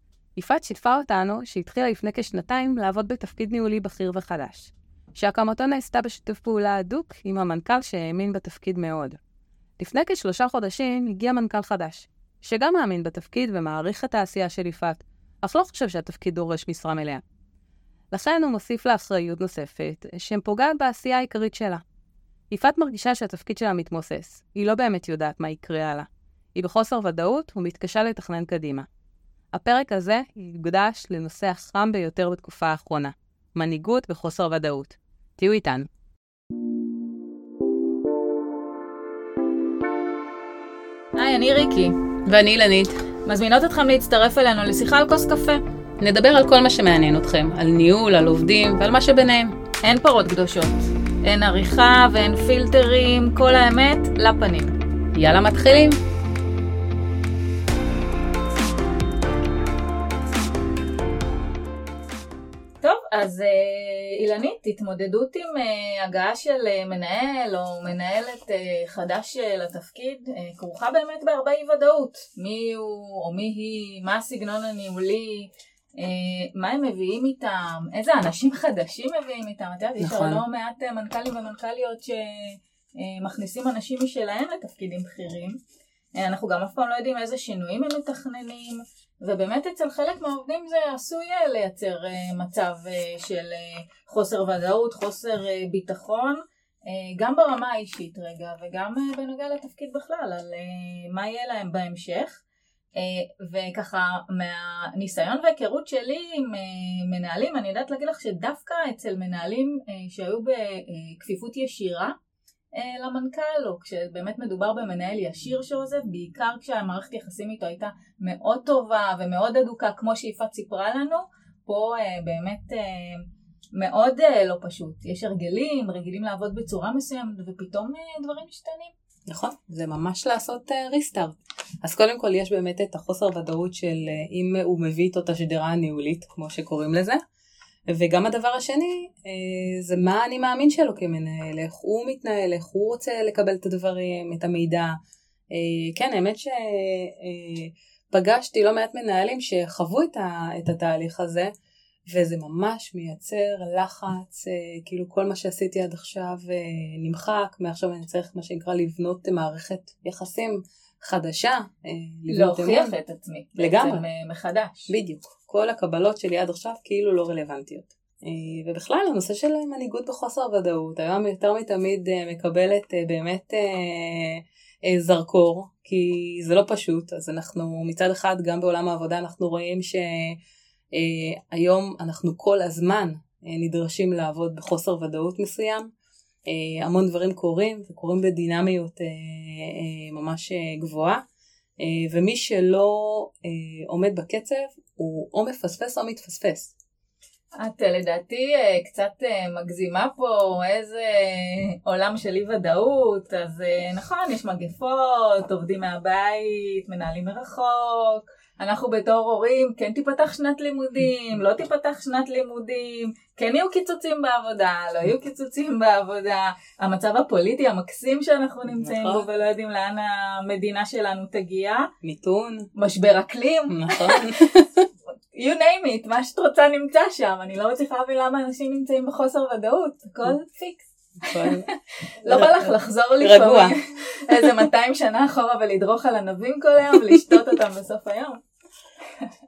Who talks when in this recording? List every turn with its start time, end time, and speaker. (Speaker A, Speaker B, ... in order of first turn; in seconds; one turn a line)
Speaker A: 0.3-9.2
Speaker A: 9.8-17.2
Speaker A: 18.1-21.8
Speaker A: 22.5-28.9
Speaker A: 29.5-35.9
Speaker B: 41.1-42.0
Speaker A: 42.2-43.0
Speaker B: 43.2-45.6
Speaker A: 46.0-49.6
Speaker B: 49.8-54.7
Speaker A: 55.1-56.0
Speaker B: 62.8-85.6
Speaker A: 80.0-80.4
Speaker B: 86.2-102.4
Speaker B: 103.0-112.1
Speaker B: 112.7-123.2
Speaker B: 123.8-128.9
Speaker A: 129.3-137.2
Speaker A: 137.9-144.9
Speaker A: 145.5-151.5
Speaker A: 152.1-162.9
Speaker B: 162.3-164.9
Speaker A: 163.6-164.0
Speaker A: 164.9-180.4
Speaker A: 180.9-185.9
Speaker A: 186.5-191.2
Speaker A: 191.8-196.7
Speaker B: 197.6-221.9
Speaker A: 218.8-219.2
Speaker A: 222.0-222.7
Speaker B: 222.8-224.3
Speaker A: 223.7-224.9
Speaker B: 225.3-238.4
Speaker A: 231.2-231.7
Speaker A: 232.2-233.7
Speaker A: 234.3-234.7
Speaker A: 237.0-237.5